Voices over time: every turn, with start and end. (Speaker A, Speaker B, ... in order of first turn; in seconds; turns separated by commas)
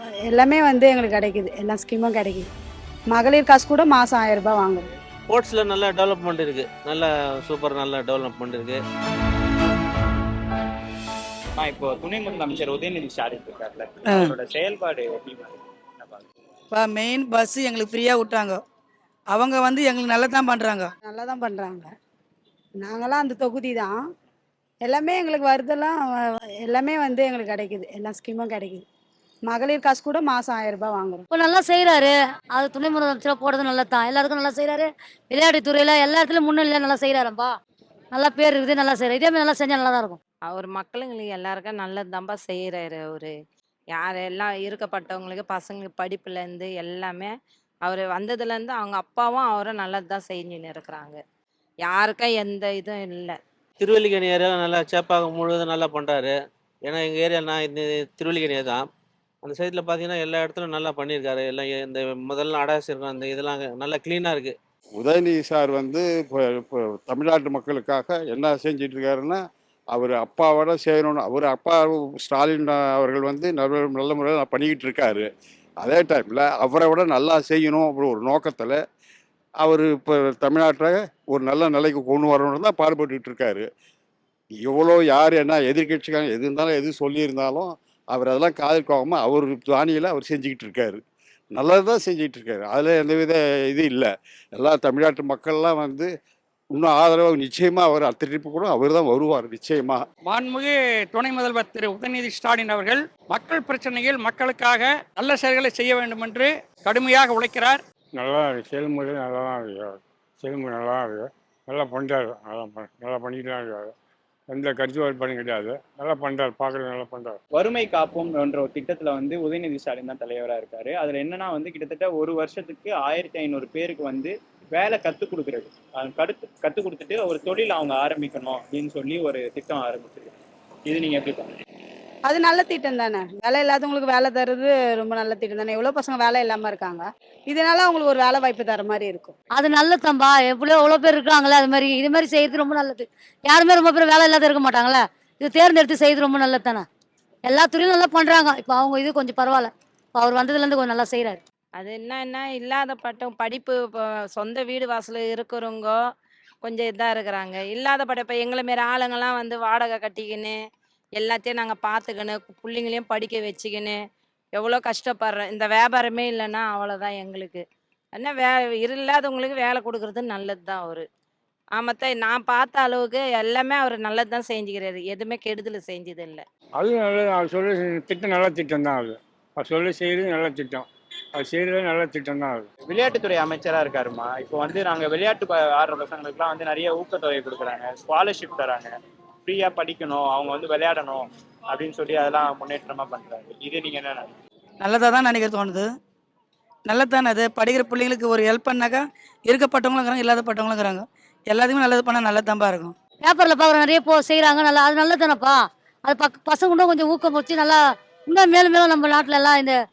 Speaker A: 0.2-2.5, Speaker A: 3.1-4.8, Speaker B: 5.3-8.8, Speaker C: 11.6-16.2, Speaker D: 14.1-14.3, Speaker D: 16.7-18.6, Speaker D: 19.3-20.9, Speaker A: 21.1-21.9, Speaker A: 22.8-23.9, Speaker A: 24.8-26.0, Speaker A: 26.6-28.8, Speaker A: 29.4-31.2, Speaker E: 31.3-37.5, Speaker E: 38.1-40.2, Speaker F: 40.5-43.3, Speaker F: 43.9-47.3, Speaker F: 47.8-51.2, Speaker F: 51.9-53.4, Speaker B: 53.8-58.9, Speaker B: 59.4-64.5, Speaker G: 65.0-69.4, Speaker G: 69.9-75.3, Speaker G: 75.8-78.8, Speaker G: 79.6-83.7, Speaker G: 84.6-91.0, Speaker G: 91.5-96.1, Speaker G: 96.7-100.0, Speaker H: 100.2-107.8, Speaker I: 108.2-113.9, Speaker I: 114.5-117.4, Speaker C: 117.5-130.3, Speaker C: 130.9-131.5, Speaker A: 132.3-139.3, Speaker E: 139.6-146.8, Speaker E: 147.5-151.4, Speaker F: 151.8-155.9, Speaker F: 156.6-160.6, Speaker F: 161.2-163.9, Speaker F: 164.6-167.6, Speaker F: 168.1-171.0, Speaker F: 171.8-176.4, Speaker I: 176.8-182.7, Speaker C: 182.9-188.9, Speaker C: 189.4-194.3, Speaker D: 194.8-195.9, Speaker D: 196.8-202.9, Speaker E: 203.3-209.8